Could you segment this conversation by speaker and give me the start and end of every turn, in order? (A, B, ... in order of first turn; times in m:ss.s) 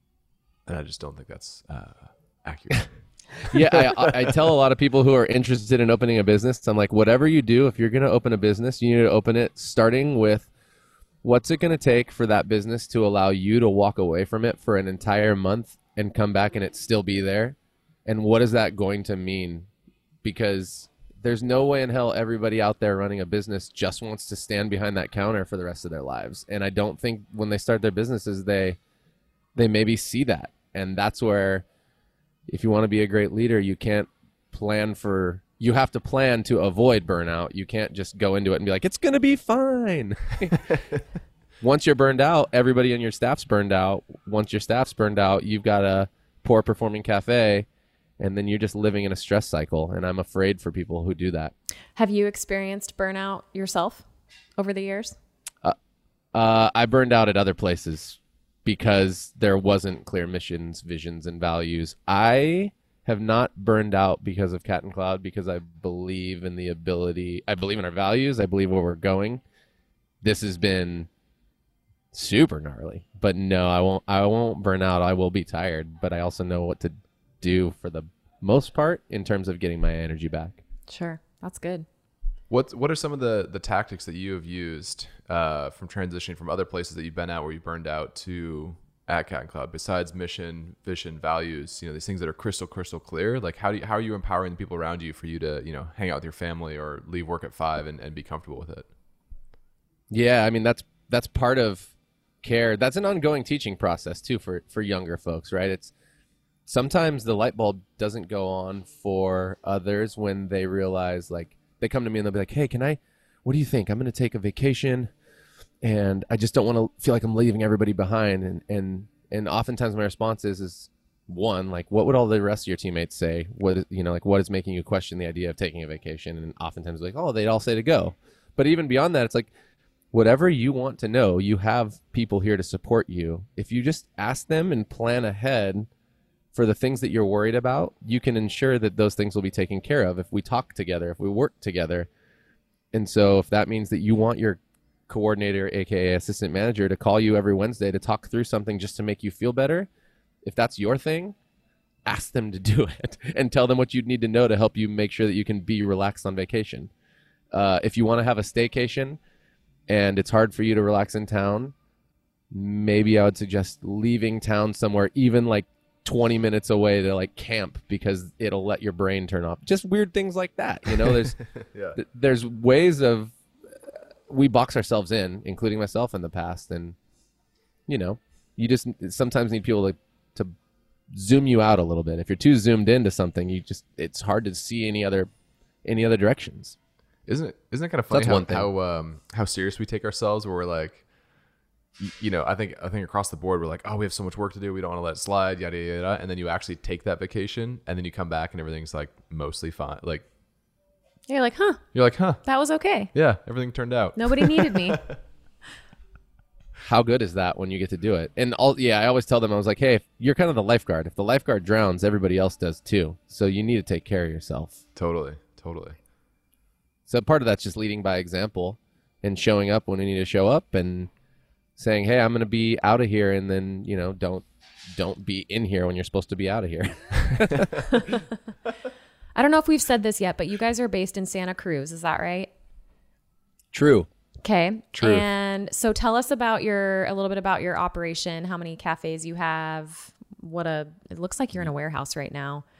0:00.7-0:04.5 A
0:03.5-0:10.5 B
0:11.2-0:19.7 B
0:20.2-0:28.8 B
0:29.5-0:31.6 B
0:32.5-0:40.6 B
0:41.6-0:47.7 B
0:48.2-0:51.5 B
0:52.0-0:54.0 C
0:54.6-0:55.2 C
0:56.3-1:09.4 B
1:10.2-1:11.1 B
1:12.1-1:20.6 B
1:20.9-1:21.8 C
1:22.5-1:38.9 A
1:40.1-1:41.9 B
1:42.4-1:45.9 B
1:46.6-1:55.1 B
1:55.8-2:09.5 B
2:10.1-2:15.9 B
2:16.5-2:22.1 B
2:22.9-2:29.9 B
2:30.4-2:31.4 B
2:32.0-2:36.9 B
2:37.5-2:39.2 B
2:39.9-2:41.7 B
2:42.5-2:51.4 B
2:51.9-2:53.3 B
2:54.3-2:57.0 B
2:57.9-3:00.5 B
3:01.1-3:05.3 B
3:05.8-3:06.8 B
3:07.2-3:11.0 A
3:08.1-3:08.7 B
3:12.0-3:20.2 A
3:21.3-3:21.8 C
3:21.9-3:22.4 A
3:22.4-3:23.1 C
3:23.1-3:25.2 A
3:24.2-3:25.0 C
3:26.8-3:34.8 B
3:34.9-3:36.0 A
3:37.1-3:41.1 B
3:41.8-3:47.7 B
3:47.9-3:48.2 C
3:49.4-3:52.5 C
3:53.7-3:54.1 B
3:54.4-4:02.6 C
3:55.0-3:55.2 B